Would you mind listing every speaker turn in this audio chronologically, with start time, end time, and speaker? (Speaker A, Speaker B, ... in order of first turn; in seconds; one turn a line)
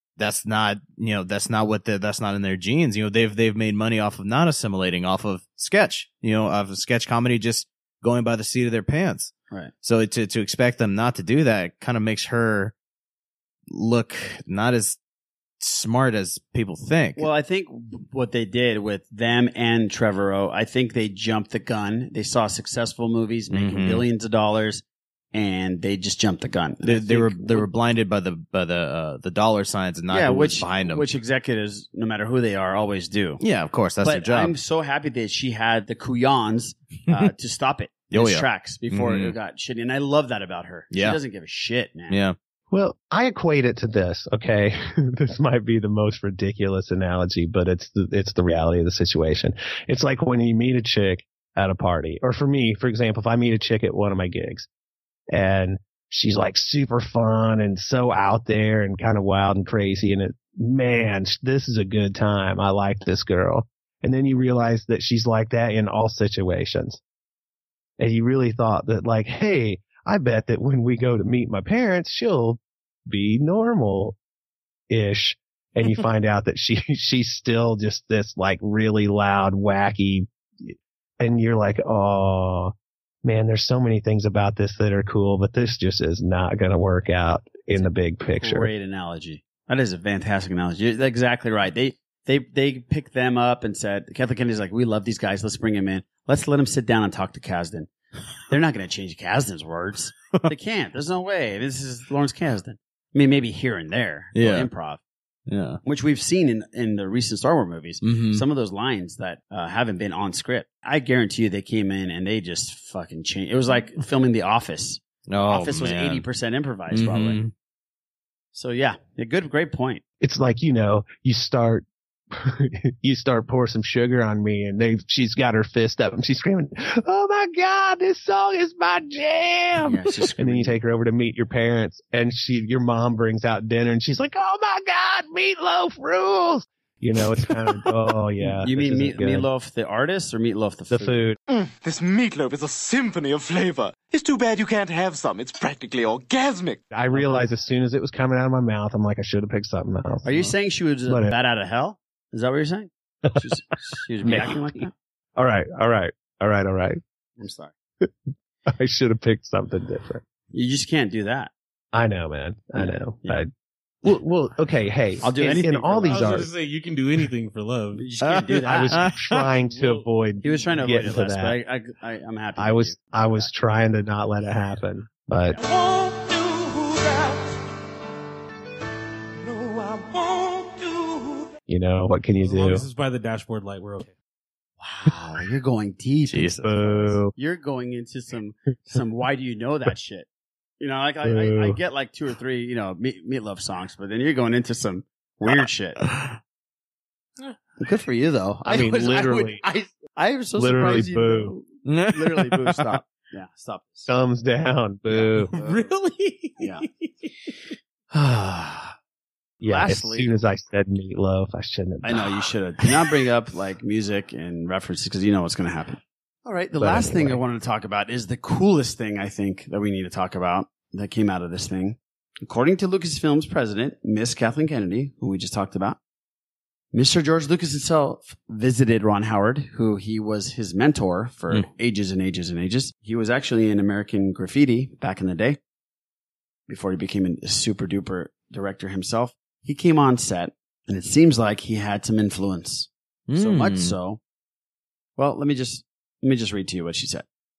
Speaker A: 0.2-12.7
Speaker A: 13.7-15.0
Speaker A: 15.6-17.3
Speaker B: 17.1-27.7
Speaker A: 23.5-24.0
Speaker A: 26.8-31.1
Speaker B: 30.1-33.4
Speaker A: 33.4-34.5
Speaker B: 34.0-42.2
Speaker A: 38.1-39.3
Speaker A: 40.9-41.2
Speaker A: 42.1-42.4
Speaker C: 42.7-54.7
Speaker C: 55.3-67.0
Speaker C: 68.0-74.2
Speaker C: 74.9-82.7
Speaker C: 83.2-88.7
Speaker B: 87.7-97.9
Speaker B: 98.5-105.0
Speaker A: 104.3-104.7
Speaker A: 105.5-105.8
Speaker B: 105.8-117.4
Speaker A: 108.0-108.4
Speaker A: 115.3-116.2
Speaker A: 116.9-117.5
Speaker B: 118.5-120.0
Speaker C: 120.2-139.5
Speaker B: 129.8-130.8
Speaker B: 138.4-141.2
Speaker C: 140.9-141.4
Speaker D: 141.5-146.8
Speaker C: 146.9-150.2
Speaker B: 150.2-154.9
Speaker C: 151.1-151.3
Speaker C: 154.2-157.0
Speaker B: 157.4-157.7
Speaker C: 158.7-160.2
Speaker B: 160.5-161.5
Speaker C: 161.9-163.5
Speaker B: 162.8-163.4
Speaker C: 164.0-166.5
Speaker B: 165.2-166.4
Speaker E: 166.1-168.7
Speaker B: 167.9-169.0
Speaker C: 168.6-171.6
Speaker E: 169.5-170.1
Speaker B: 170.4-173.5
Speaker C: 172.6-175.6
Speaker E: 175.7-177.4
Speaker E: 179.4-181.4
Speaker C: 181.7-182.8
Speaker E: 182.4-184.1
Speaker B: 184.8-190.3
Speaker A: 186.3-186.7
Speaker C: 186.6-187.3
Speaker B: 190.8-196.0
Speaker C: 191.2-191.8
Speaker B: 197.8-204.1
Speaker C: 198.6-199.6
Speaker C: 200.6-201.5
Speaker A: 201.8-202.8
Speaker C: 204.1-205.5
Speaker B: 205.1-205.8
Speaker E: 205.5-207.3
Speaker B: 206.6-206.8
Speaker C: 209.6-212.2
Speaker B: 209.7-210.3
Speaker B: 212.0-226.0
Speaker C: 216.8-217.4
Speaker B: 226.9-235.6
Speaker B: 236.7-244.2
Speaker A: 243.3-243.9
Speaker B: 245.2-247.2